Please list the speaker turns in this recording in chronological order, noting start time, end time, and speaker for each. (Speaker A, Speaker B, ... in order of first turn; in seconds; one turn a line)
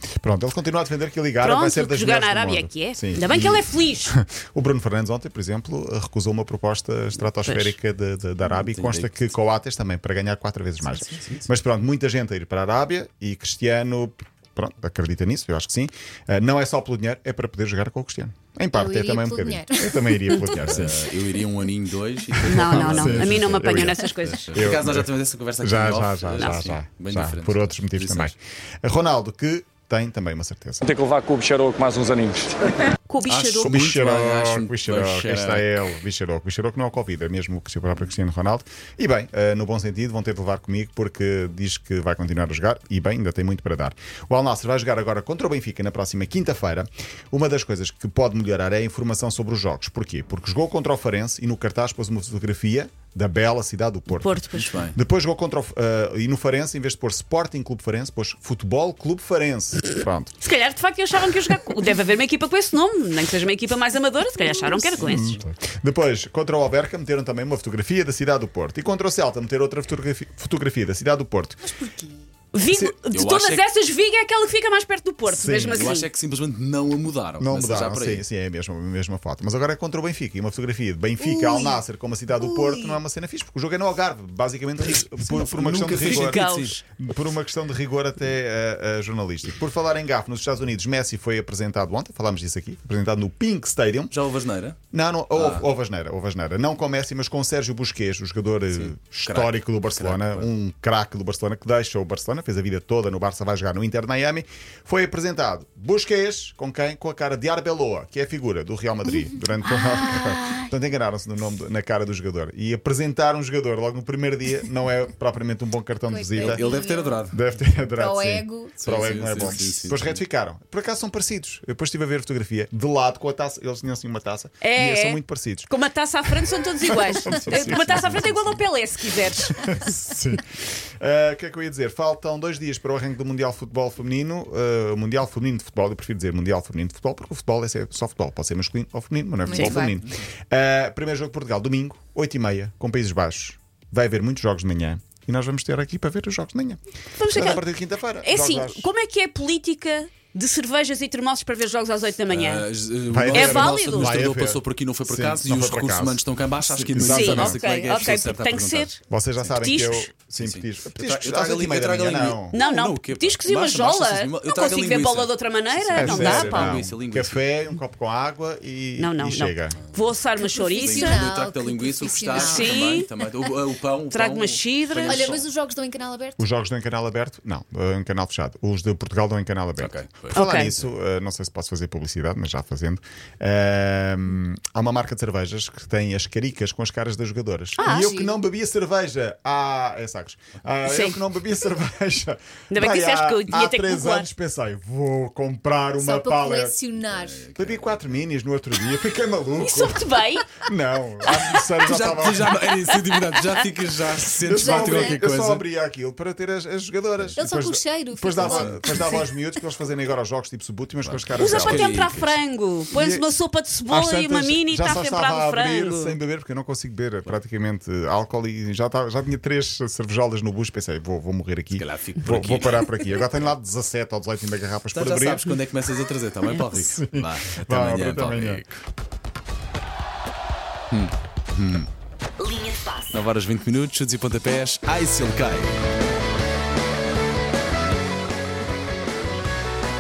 Speaker A: 0.2-21.0
Speaker B: 1.4-4.1
Speaker B: 7.4-7.7
Speaker C: 8.4-9.3
Speaker C: 10.9-11.5
Speaker D: 18.7-20.2
Speaker C: 20.6-23.6
Speaker A: 22.4-30.8
Speaker B: 22.5-24.6
Speaker C: 24.3-28.3
Speaker E: 30.8-32.8
Speaker B: 33.0-33.8
Speaker C: 33.2-35.7
Speaker A: 33.6-60.3
Speaker B: 54.1-54.7
Speaker C: 54.5-55.0
Speaker B: 60.4-65.4
Speaker D: 64.4-65.0
Speaker A: 65.0-71.6
Speaker D: 71.6-72.2
Speaker B: 72.5-76.1
Speaker C: 72.7-73.7
Speaker A: 75.3-75.9
Speaker C: 75.7-78.2
Speaker A: 77.4-94.1
Speaker B: 82.4-82.9
Speaker C: 85.1-86.8
Speaker B: 86.0-86.8
Speaker C: 94.1-94.8
Speaker A: 94.9-116.7
Speaker C: 95.3-95.7
Speaker C: 98.7-100.5
Speaker B: 109.7-110.7
Speaker D: 116.1-117.3
Speaker C: 116.4-117.4
Speaker A: 117.3-125.7
Speaker D: 117.8-119.6
Speaker C: 118.8-120.2
Speaker B: 124.6-129.8
Speaker A: 126.4-128.6
Speaker C: 127.5-127.9
Speaker A: 129.4-148.9
Speaker D: 139.4-140.0
Speaker B: 139.5-139.8
Speaker B: 147.2-147.6
Speaker B: 148.2-152.7
Speaker C: 152.3-159.8
Speaker A: 153.1-157.6
Speaker B: 153.3-154.2
Speaker B: 157.0-159.0
Speaker A: 159.1-162.6
Speaker B: 159.5-160.1
Speaker C: 160.4-167.4
Speaker B: 162.5-166.8
Speaker A: 165.9-169.8
Speaker B: 169.0-171.3
Speaker D: 170.4-173.1
Speaker C: 170.8-175.4
Speaker B: 172.3-173.1
Speaker B: 174.1-175.3
Speaker D: 175.0-176.4
Speaker A: 176.4-196.8
Speaker C: 179.8-180.4
Speaker B: 180.3-180.7
Speaker B: 187.8-188.1
Speaker D: 187.8-188.4
Speaker B: 190.8-191.2
Speaker B: 192.7-194.3
Speaker D: 196.0-197.4
Speaker C: 197.1-198.2
Speaker A: 197.5-200.1
Speaker B: 199.6-200.6
Speaker A: 200.6-202.7
Speaker C: 201.8-205.7
Speaker B: 203.0-203.5
Speaker A: 204.4-212.1
Speaker D: 204.5-205.2
Speaker D: 207.3-209.4
Speaker C: 208.4-208.8
Speaker C: 211.0-212.4
Speaker B: 211.3-216.2
Speaker A: 212.9-213.3
Speaker A: 213.9-225.6
Speaker C: 221.7-222.9
Speaker C: 224.9-228.8
Speaker A: 226.7-228.6
Speaker C: 230.9-231.9
Speaker C: 233.1-235.8